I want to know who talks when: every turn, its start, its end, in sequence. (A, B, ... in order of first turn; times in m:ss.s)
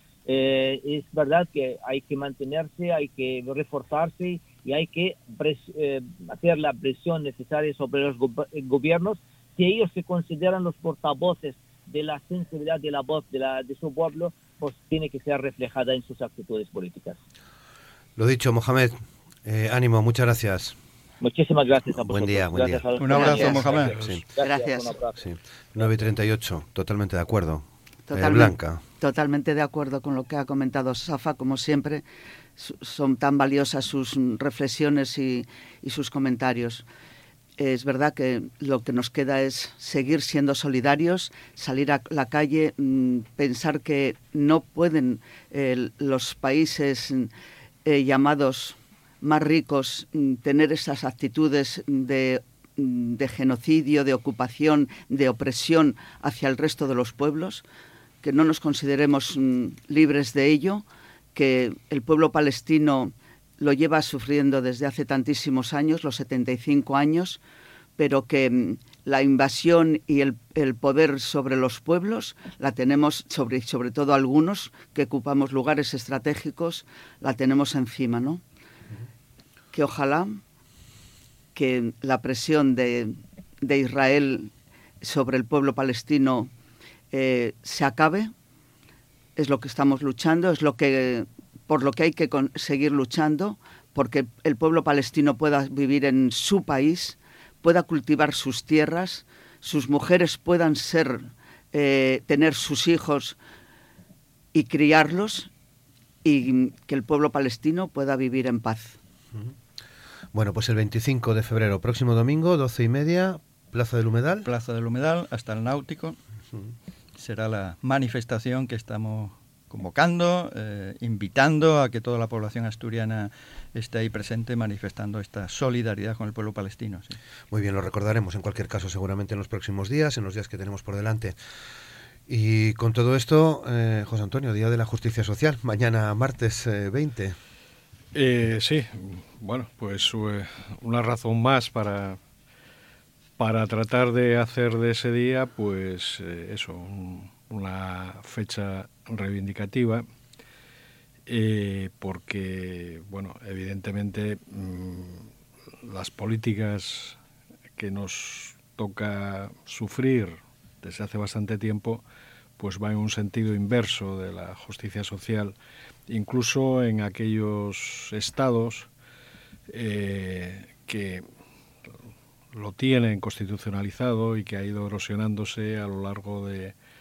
0:00.3-0:17.2 A
0:18.2-0:20.8 B
0:21.2-0:25.2 A
0:22.0-0:24.2 B
0:23.0-0:24.2 C
0:23.2-0:25.0 D
0:25.2-0:28.8 B
0:28.1-0:32.0 D
0:32.6-0:36.9 D
0:37.6-0:47.3 D
0:47.8-0:57.6 D
0:58.2-1:07.4 D
1:08.0-1:18.4 D
1:19.7-1:20.4 D
1:21.6-1:26.5 D
1:27.1-1:28.3 D
1:29.4-1:43.4 D
1:44.5-1:45.5 D
1:46.2-1:49.0 D
1:50.3-1:54.5 B
1:54.5-1:56.2 C
1:57.2-2:07.2 C
2:07.5-2:11.4 B
2:12.3-2:17.4 B
2:18.1-2:22.2 E
2:23.4-2:30.0 E
2:31.3-2:35.3 E
2:35.8-2:37.2 E
2:37.8-2:42.0 E
2:42.6-2:45.6 E
2:46.1-2:48.9 E
2:49.7-2:51.2 E
2:52.5-2:56.8 E